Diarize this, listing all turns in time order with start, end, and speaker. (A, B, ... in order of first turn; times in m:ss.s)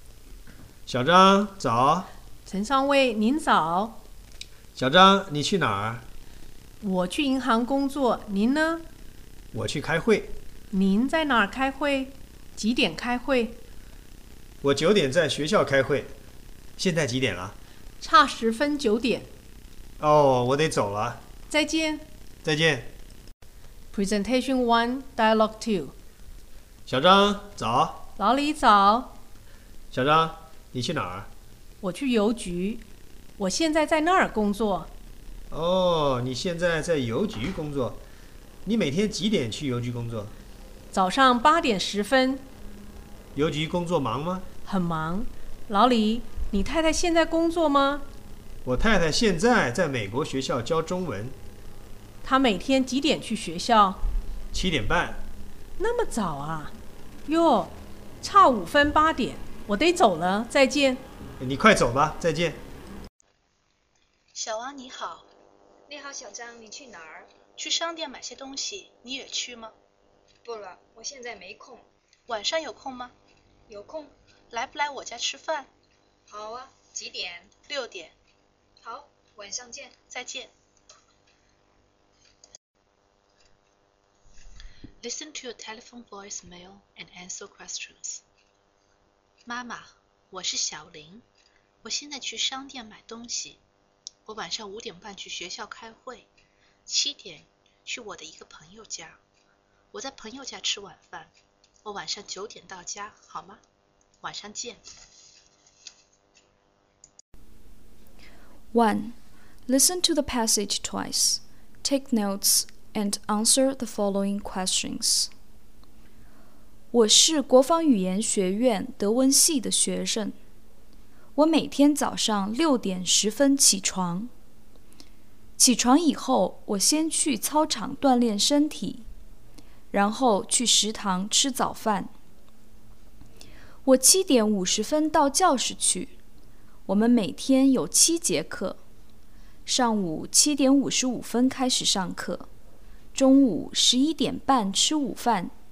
0:00.9-0:02.1 A
0:02.4-0:04.0 B
0:04.8-0:06.0 A
0:06.8-0:08.8 B
0:09.5-0:10.4 A
0:10.7-0:13.6 B
0:14.6-0:16.1 A
0:16.8-0:17.6 A
0:18.0-0:19.3 B
0:20.0-0:21.2 A
0:21.5-0:22.1 B
0:22.4-0:22.9 A
0:23.9-0:25.9 B
0:26.9-0:28.0 A
0:28.2-0:29.2 B
0:29.9-0:31.3 A
0:31.8-0:32.8 B
0:33.4-0:34.9 B
0:35.5-0:38.0 A
0:38.6-0:40.3 A
0:40.9-0:42.4 B
0:43.3-0:44.4 A
0:44.6-0:48.1 B
0:48.6-0:51.4 A
0:52.2-0:54.0 B
0:54.5-0:55.2 A
0:55.8-1:01.0 B
1:01.4-1:02.6 A
1:04.3-1:05.3 C
1:05.9-1:07.3 D
1:07.6-1:09.7 C
1:10.4-1:11.8 D
1:12.3-1:13.1 C
1:13.7-1:14.1 D
1:14.5-1:15.7 C
1:16.3-1:17.5 D
1:17.7-1:18.1 C
1:18.8-1:20.0 D
1:20.1-1:20.5 C
1:25.0-1:28.2 C
1:29.4-1:31.2 C
1:31.8-1:33.6 C
1:34.2-1:36.3 C
1:36.9-1:39.2 C
1:39.9-1:41.3 C
1:41.8-1:43.6 C
1:44.2-1:44.8 C
1:48.7-1:55.3 E
1:56.9-2:00.4 E
2:01.3-2:04.3 E
2:05.6-2:09.1 E
2:09.9-2:12.1 E
2:13.8-2:16.2 E
2:16.8-2:18.8 E
2:19.6-2:22.5 E
2:23.1-2:25.5 E